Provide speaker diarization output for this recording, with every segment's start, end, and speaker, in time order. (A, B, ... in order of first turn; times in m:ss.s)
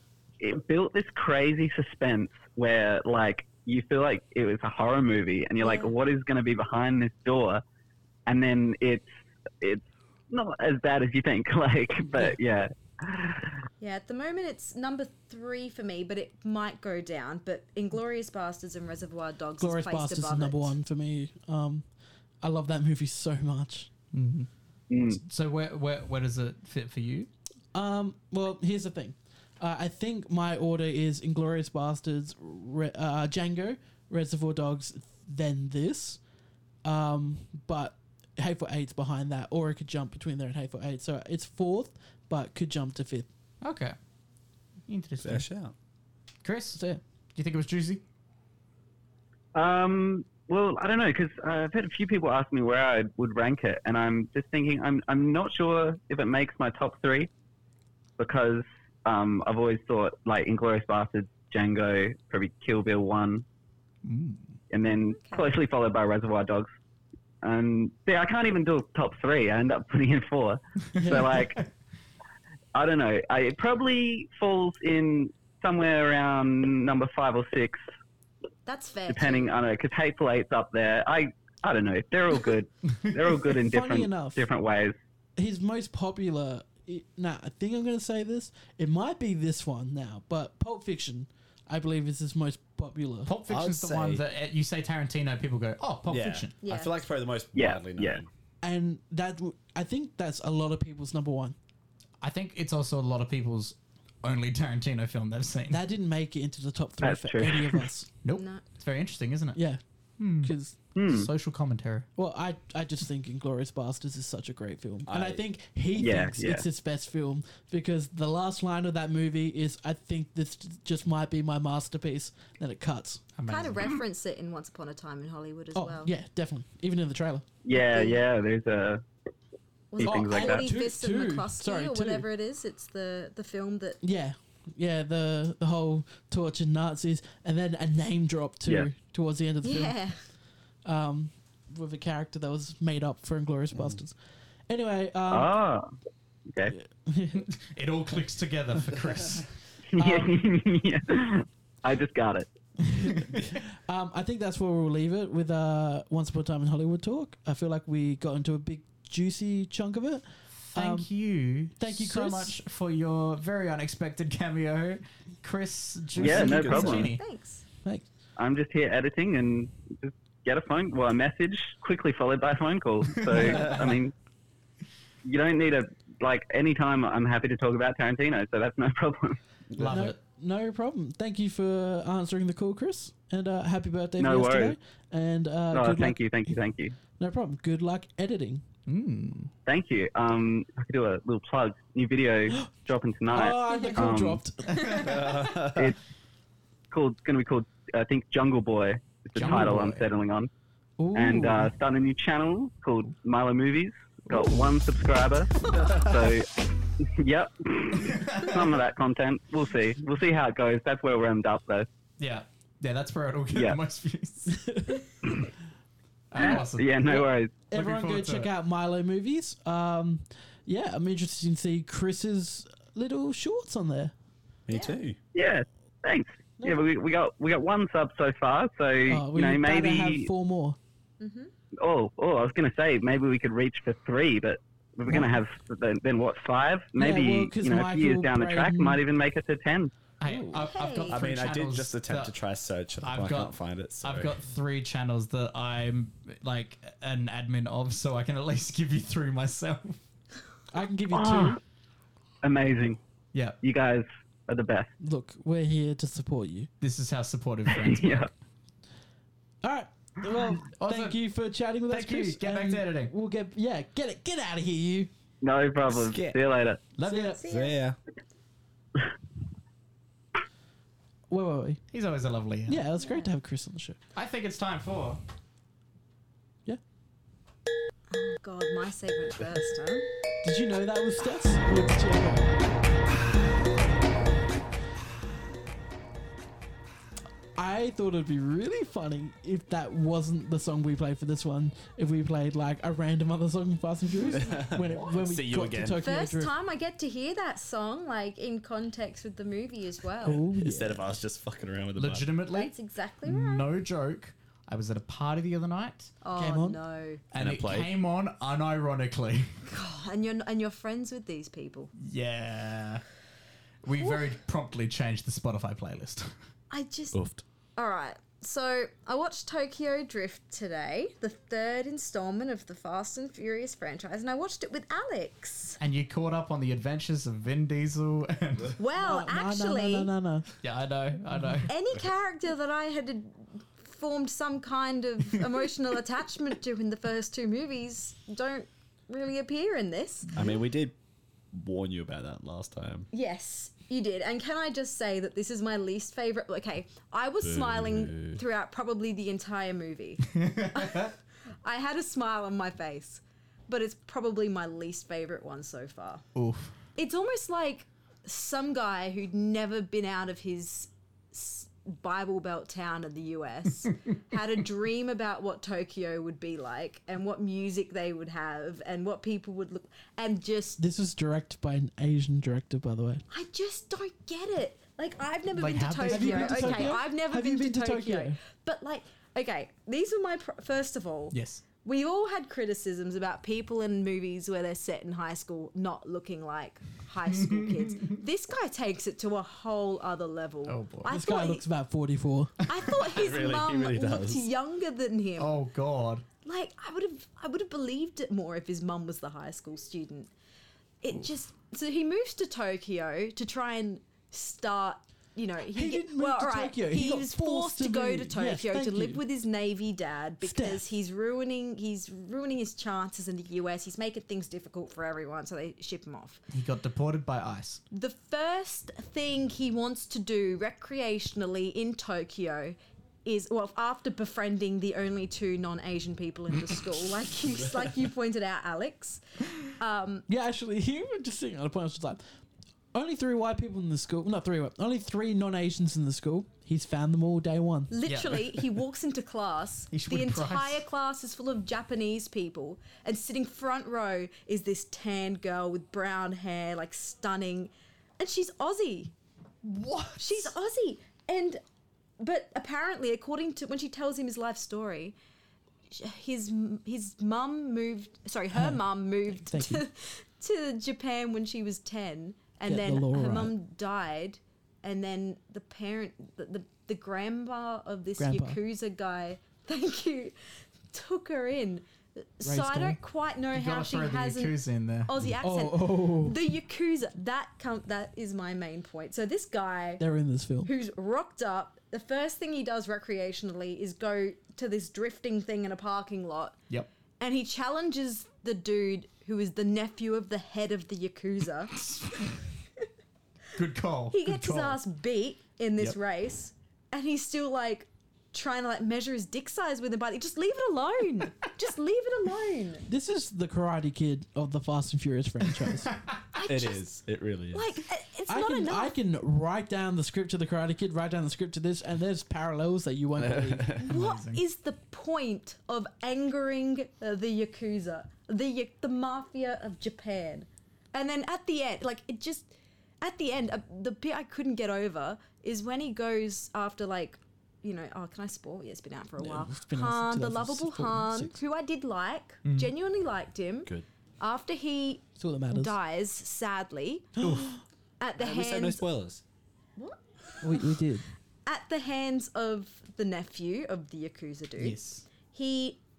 0:00.4-0:07.6 A
0:05.6-0:05.9 B
0:08.2-0:09.1 A
0:09.6-0:13.5 A
0:13.8-0:20.7 B
0:19.6-0:21.9 C
0:22.4-0:23.9 C
0:24.1-0:24.5 D
0:24.9-0:25.2 A
0:25.1-0:27.3 D
0:27.7-0:36.2 C
0:36.8-0:43.3 C
0:43.6-0:44.0 D
0:44.9-0:45.5 D
0:45.2-0:45.7 E
0:46.4-0:46.8 D
0:46.8-0:47.0 C
0:47.3-0:48.0 D
0:49.5-0:57.3 A
0:58.2-1:03.4 A
1:04.0-1:04.6 D
1:04.7-1:06.7 A
1:05.1-1:05.5 B
1:07.4-1:11.6 A
1:11.0-1:11.5 C
1:12.7-1:17.8 A
1:18.6-1:19.5 B
1:19.1-1:25.0 A
1:23.6-1:24.5 C
1:25.4-1:33.3 C
1:33.2-1:36.5 D
1:33.5-1:34.2 E
1:36.1-1:38.3 E
1:36.6-1:37.0 B
1:37.5-1:38.2 A
1:38.6-1:41.6 C
1:42.2-1:45.8 D
1:45.7-1:48.1 C
1:47.0-1:47.8 A
1:48.2-1:49.6 D
1:48.3-1:48.6 B
1:50.2-1:52.1 D
1:50.4-1:50.8 C
1:50.9-1:51.3 A
1:52.2-2:03.2 C
1:55.0-1:55.4 E
1:55.9-1:56.6 A
2:03.4-2:03.9 D
2:03.5-2:06.1 B
2:05.7-2:07.5 C
2:07.6-2:09.0 A
2:07.7-2:08.2 B
2:09.9-2:14.0 B
2:10.0-2:10.7 A
2:10.0-2:12.2 C
2:14.0-2:20.0 C
2:18.6-2:18.9 A
2:19.6-2:20.2 B
2:20.8-2:24.2 C
2:23.7-2:24.0 E
2:24.7-2:25.5 C
2:25.3-2:25.9 A
2:26.5-2:26.7 A
2:26.7-2:27.5 C
2:27.5-2:29.5 D
2:29.9-2:32.5 A
2:30.0-2:30.3 C
2:32.8-2:41.1 C
2:33.0-2:33.5 D
2:40.7-2:47.2 D
2:41.8-2:42.6 C
2:46.2-2:47.0 E
2:46.2-2:47.1 A
2:46.9-2:47.6 B
2:48.4-2:54.1 A
2:53.2-2:53.7 D
2:53.4-2:53.7 C
2:53.4-2:53.9 E
2:55.2-2:59.4 A
2:59.8-3:00.2 D
2:59.8-3:06.6 C
3:04.2-3:04.8 A
3:05.7-3:06.9 A
3:07.2-3:08.6 C
3:08.9-3:09.5 D
3:09.6-3:14.4 A
3:13.3-3:15.1 C
3:13.7-3:14.0 B
3:14.7-3:15.1 D
3:15.0-3:15.9 E
3:15.5-3:16.0 A
3:16.9-3:20.5 A
3:19.4-3:20.0 D
3:21.0-3:21.7 C
3:21.1-3:26.5 A
3:24.3-3:24.6 C
3:27.0-3:31.9 A
3:28.0-3:28.6 D
3:32.2-3:34.6 D
3:33.5-3:33.8 A
3:34.5-3:35.0 C
3:36.3-3:37.0 D
3:36.4-3:37.6 A
3:37.1-3:44.1 C
3:37.7-3:38.5 D
3:44.7-3:45.2 E
3:44.7-3:45.0 B
3:45.3-3:50.3 A
3:46.6-3:46.9 C
3:49.0-3:50.8 C
3:51.2-3:51.5 B
3:51.8-3:59.9 A
3:57.0-3:59.0 C
4:00.2-4:02.3 D
4:00.2-4:00.7 C
4:00.5-4:01.2 B
4:01.1-4:04.3 E
4:03.0-4:10.0 D
4:10.7-4:11.6 C
4:11.1-4:11.6 A
4:12.4-4:13.0 A
4:13.6-4:14.9 A
4:15.0-4:16.7 C
4:16.8-4:18.3 D
4:17.7-4:18.3 A
4:19.6-4:25.1 C
4:20.7-4:21.2 D
4:21.9-4:23.1 D
4:25.4-4:26.8 A
4:25.9-4:26.4 E
4:26.9-4:27.4 D
4:27.0-4:27.4 C
4:27.4-4:27.8 B
4:27.5-4:28.0 E
4:31.3-4:31.8 C
4:31.9-4:32.9 D
4:32.7-4:34.0 C
4:33.0-4:33.3 B
4:34.1-4:35.2 D
4:38.1-4:40.1 B
4:40.4-4:42.5 C
4:47.6-4:56.5 C
4:54.3-4:56.0 E
4:56.0-5:00.4 B
5:00.2-5:01.1 C
5:00.6-5:02.3 E
5:02.0-5:06.1 D
5:02.5-5:03.7 B
5:06.2-5:07.2 B
5:06.4-5:06.8 C
5:07.3-5:09.5 D
5:07.4-5:07.9 E
5:09.6-5:11.9 B
5:12.0-5:13.0 D
5:13.8-5:16.3 D
5:16.7-5:17.2 B
5:17.1-5:17.4 E
5:17.8-5:25.8 B
5:25.8-5:28.8 D
5:28.8-5:30.1 B
5:28.9-5:30.5 C
5:30.6-5:31.7 D
5:31.7-5:40.3 B
5:40.3-5:40.9 E
5:41.5-5:43.1 E
5:43.1-5:56.2 B
5:47.4-5:48.4 E
5:50.3-5:51.1 D
5:56.3-5:56.7 D
5:57.0-6:10.8 B
6:10.8-6:13.2 C
6:13.3-6:31.6 B
6:15.5-6:17.0 D
6:16.1-6:18.4 C
6:21.3-6:21.6 D
6:27.3-6:28.2 D
6:30.6-6:31.1 D
6:31.1-6:32.7 C
6:32.7-6:35.6 B
6:33.0-6:34.5 E
6:35.4-6:36.2 D
6:36.4-6:40.3 B
6:41.0-6:56.4 B
6:45.7-6:49.2 C
6:50.4-6:50.8 C
6:56.5-6:57.8 D
6:57.9-7:10.2 B
7:10.3-7:12.2 C
7:12.9-7:17.9 C
7:17.9-7:29.1 B
7:18.0-7:18.6 D
7:19.9-7:20.8 D
7:29.6-7:30.5 D
7:30.2-7:31.6 B
7:32.2-7:35.2 B
7:35.9-7:50.3 B
7:38.5-7:39.8 C
7:42.6-7:43.5 C
7:48.2-7:48.6 C
7:50.9-8:00.0 B
7:52.4-7:53.0 C
7:53.5-7:55.1 D
7:55.4-7:56.4 C
8:00.0-8:00.7 C
8:00.6-8:06.6 B
8:07.2-8:11.8 B
8:11.8-8:12.3 D
8:13.5-8:14.8 D
8:14.1-8:22.8 B
8:22.9-8:25.9 C
8:25.5-8:26.2 D
8:26.3-8:26.9 B
8:26.4-8:27.7 E
8:27.5-8:29.0 B
8:28.3-8:33.7 C
8:33.2-8:33.8 E
8:33.8-8:57.1 B
8:33.8-8:34.4 D
8:49.2-8:51.4 C
8:52.4-8:52.7 D
8:55.2-8:55.7 C
8:57.2-8:57.5 C
8:57.2-8:57.6 D
8:58.0-8:58.8 B
8:58.2-8:59.2 E
8:59.8-9:00.8 B
9:00.4-9:01.1 C
9:01.4-9:05.8 B
9:04.6-9:05.0 D